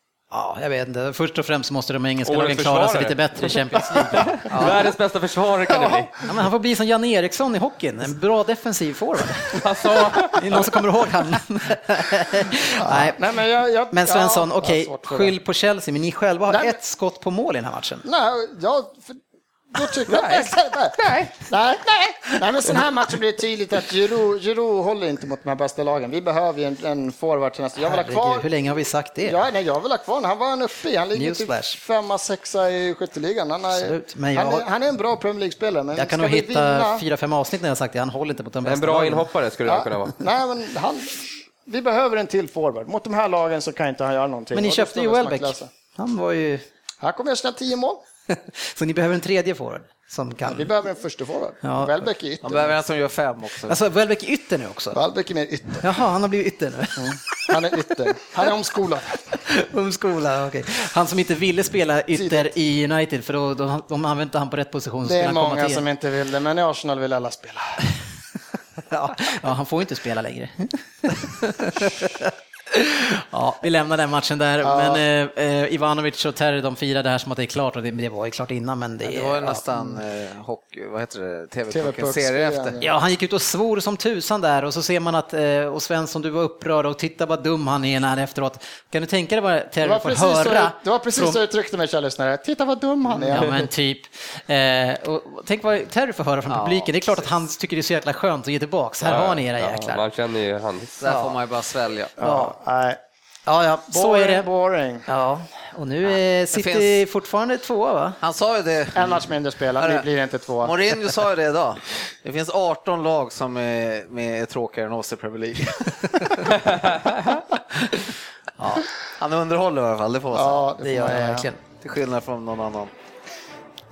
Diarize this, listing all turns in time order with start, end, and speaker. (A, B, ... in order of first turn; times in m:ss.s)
0:00.3-0:04.8 A
0:02.3-0:06.1 B
0:04.5-0:04.8 C
0:05.7-0:06.1 D
0:06.2-0:09.6 A
0:09.6-0:10.7 B
0:10.2-0:13.2 A
0:12.8-0:15.4 D
0:13.9-0:18.0 A
0:16.5-0:16.8 D
0:18.0-0:19.2 D
0:19.7-0:28.5 D
0:27.8-0:29.4 A
0:29.2-0:37.0 D
0:31.2-0:31.8 A
0:33.7-0:34.6 A
0:36.0-0:39.3 A
0:38.6-0:40.2 B
0:39.7-0:45.7 D
0:44.5-0:46.6 A
0:47.0-0:48.0 D
0:48.3-0:50.7 A
0:50.5-0:52.8 D
0:51.6-0:52.0 A
0:52.4-0:53.8 C
0:53.7-0:55.0 A
0:54.9-0:55.9 D
0:55.8-0:57.9 A
0:57.0-0:59.2 D
0:59.4-1:05.8 A
1:02.1-1:02.5 D
1:05.0-1:07.8 D
1:08.9-1:19.6 A
1:14.6-1:15.0 D
1:19.0-1:22.8 C
1:21.7-1:22.9 D
1:22.8-1:31.4 A
1:29.8-1:33.7 D
1:33.1-1:40.0 A
1:36.5-1:37.3 C
1:39.0-1:41.0 B
1:41.0-1:42.1 C
1:41.0-1:41.4 A
1:42.2-1:43.0 D
1:42.2-1:42.5 A
1:43.5-1:44.5 A
1:43.9-1:45.0 D
1:45.1-1:48.2 A
1:46.1-1:47.0 C
1:48.2-1:50.1 C
1:49.0-1:50.8 D
1:50.6-1:57.0 C
1:57.9-1:58.1 C
1:58.6-1:58.9 A
1:59.2-2:00.7 C
2:00.3-2:01.5 D
2:00.8-2:01.6 A
2:01.8-2:02.9 C